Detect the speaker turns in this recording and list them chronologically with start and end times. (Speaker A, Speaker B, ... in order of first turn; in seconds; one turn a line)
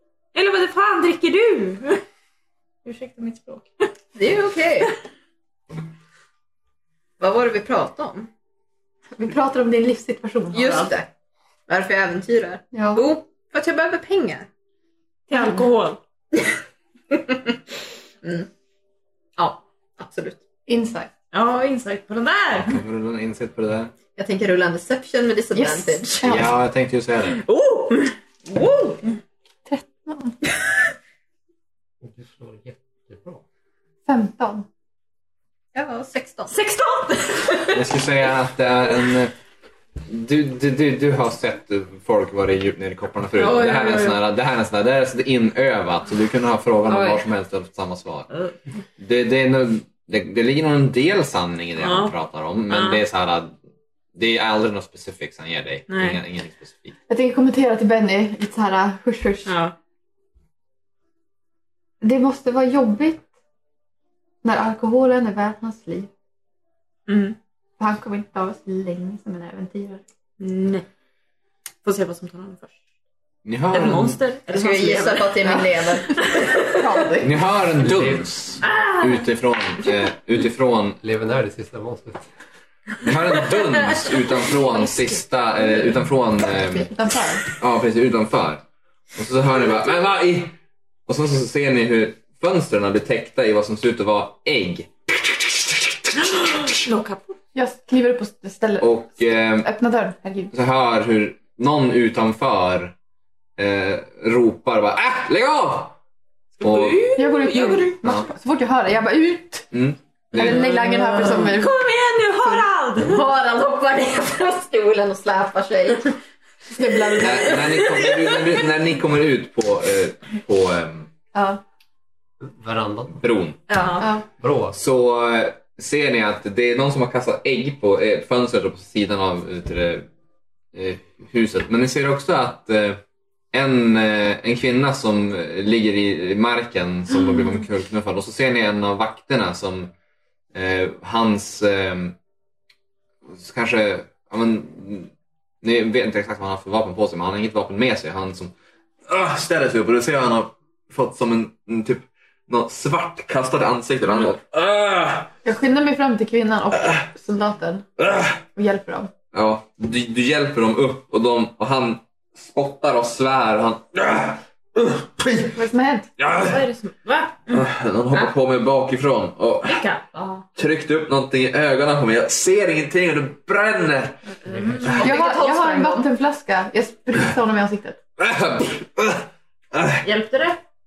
Speaker A: 0.3-2.0
Speaker A: 2.9-3.9
Speaker B: 4.2-4.9
Speaker B: 7.2-8.3
Speaker C: 9.2-10.9
Speaker B: 10.5-11.1
Speaker A: 10.6-10.9
Speaker B: 11.7-14.5
Speaker C: 12.7-13.1
Speaker A: 15.3-16.0
Speaker C: 15.4-15.6
Speaker B: 17.1-17.5
Speaker B: 18.2-18.5
Speaker B: 19.4-20.4
Speaker C: 20.7-21.1
Speaker A: 21.3-22.8
Speaker D: 22.6-23.9
Speaker B: 24.2-26.4
Speaker C: 25.6-26.5
Speaker D: 26.2-27.4
Speaker A: 27.3-29.2
Speaker C: 29.7-30.4
Speaker E: 32.0-33.4
Speaker C: 34.1-34.7
Speaker B: 35.7-36.5
Speaker A: 36.5-37.8
Speaker D: 37.7-39.3
Speaker D: 40.0-48.3
Speaker A: 43.4-44.2
Speaker A: 46.9-47.2
Speaker D: 49.0-53.6
Speaker A: 51.8-52.1
Speaker A: 52.7-53.0
Speaker D: 54.1-56.9
Speaker A: 55.9-56.2
Speaker C: 57.1-59.5
Speaker A: 59.5-59.7
Speaker C: 62.0-63.2
Speaker C: 64.4-66.1
Speaker A: 67.1-67.4
Speaker C: 67.8-70.0
Speaker A: 70.4-70.9
Speaker A: 71.8-72.8
Speaker D: 73.5-74.2
Speaker A: 73.7-75.6
Speaker B: 74.5-76.2
Speaker C: 75.4-77.4
Speaker A: 76.1-76.6
Speaker D: 77.2-81.0
Speaker E: 77.8-78.2
Speaker A: 78.6-79.2
Speaker E: 81.0-82.3
Speaker D: 83.0-86.9
Speaker C: 86.6-87.5
Speaker D: 87.6-88.6
Speaker D: 89.2-96.9
Speaker A: 96.2-97.4
Speaker C: 97.5-99.0
Speaker D: 98.8-99.7
Speaker C: 99.5-100.5
Speaker D: 100.5-103.0
Speaker D: 103.6-106.0
Speaker A: 106.6-108.0
Speaker D: 106.6-107.0
Speaker C: 107.2-109.7
Speaker D: 108.0-108.3
Speaker D: 109.7-110.7
Speaker C: 110.3-111.9
Speaker A: 110.4-113.2
Speaker C: 112.4-112.7
Speaker B: 113.0-116.2
Speaker C: 116.8-118.0
Speaker D: 117.2-121.1
Speaker C: 121.3-121.6
Speaker E: 122.4-123.2
Speaker D: 123.2-123.6
Speaker B: 123.7-124.1
Speaker A: 123.7-124.1
Speaker E: 124.4-124.8
Speaker D: 124.7-130.1
Speaker D: 130.7-133.0
Speaker D: 133.5-139.9
Speaker D: 140.5-142.2
Speaker D: 143.3-145.1
Speaker D: 145.6-148.5
Speaker D: 149.1-155.3
Speaker C: 155.4-157.9
Speaker D: 158.0-158.3
Speaker C: 158.5-159.1
Speaker D: 159.3-165.5
Speaker C: 165.3-166.1
Speaker D: 166.2-166.6
Speaker A: 166.3-168.3
Speaker D: 167.5-169.9
Speaker A: 169.6-170.5
Speaker D: 170.6-174.2
Speaker A: 174.3-175.1
Speaker B: 174.9-176.1
Speaker C: 175.0-178.0
Speaker D: 178.2-180.1
Speaker A: 180.0-180.6